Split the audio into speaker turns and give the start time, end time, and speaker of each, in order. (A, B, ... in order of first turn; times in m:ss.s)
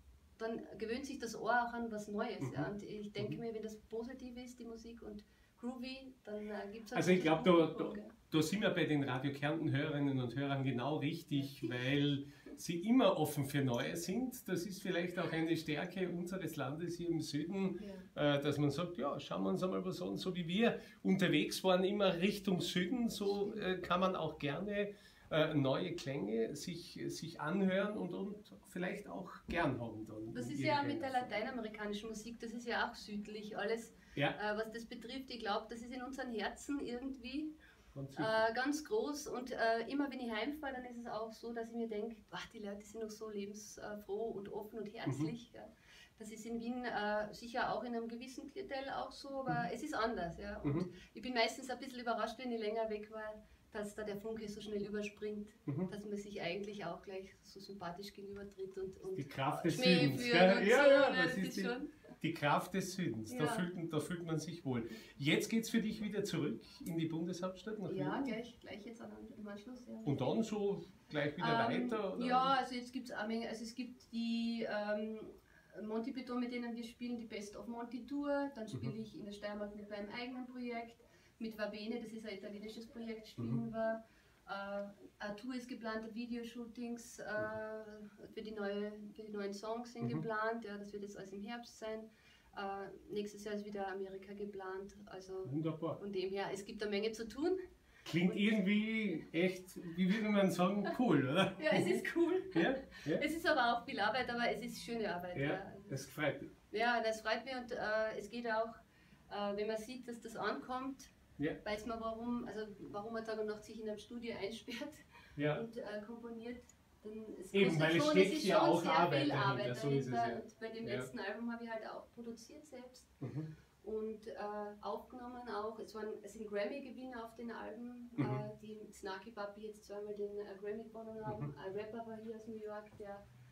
0:00.4-0:08.1 A
0:02.4-0:03.4 B
0:06.9-0:31.4 B
0:17.8-0:18.1 A
0:23.3-0:23.6 A
0:30.3-0:37.5 A
0:37.9-0:38.4 B
0:38.2-1:01.9 A
0:59.1-1:08.3 B
1:03.3-1:03.7 A
1:07.9-1:10.4 A
1:10.0-1:12.5 B
1:11.4-1:37.6 A
1:35.4-1:36.0 B
1:38.0-1:43.2 B
1:38.2-1:38.6 A
1:41.6-1:46.0 A
1:45.3-1:46.5 B
1:46.7-1:51.1 A
1:51.6-2:03.1 A
1:55.4-1:55.6 B
1:57.5-2:01.1 B
2:03.2-2:03.5 B
2:03.8-2:13.2 A
2:08.2-2:08.4 B
2:11.2-2:11.5 B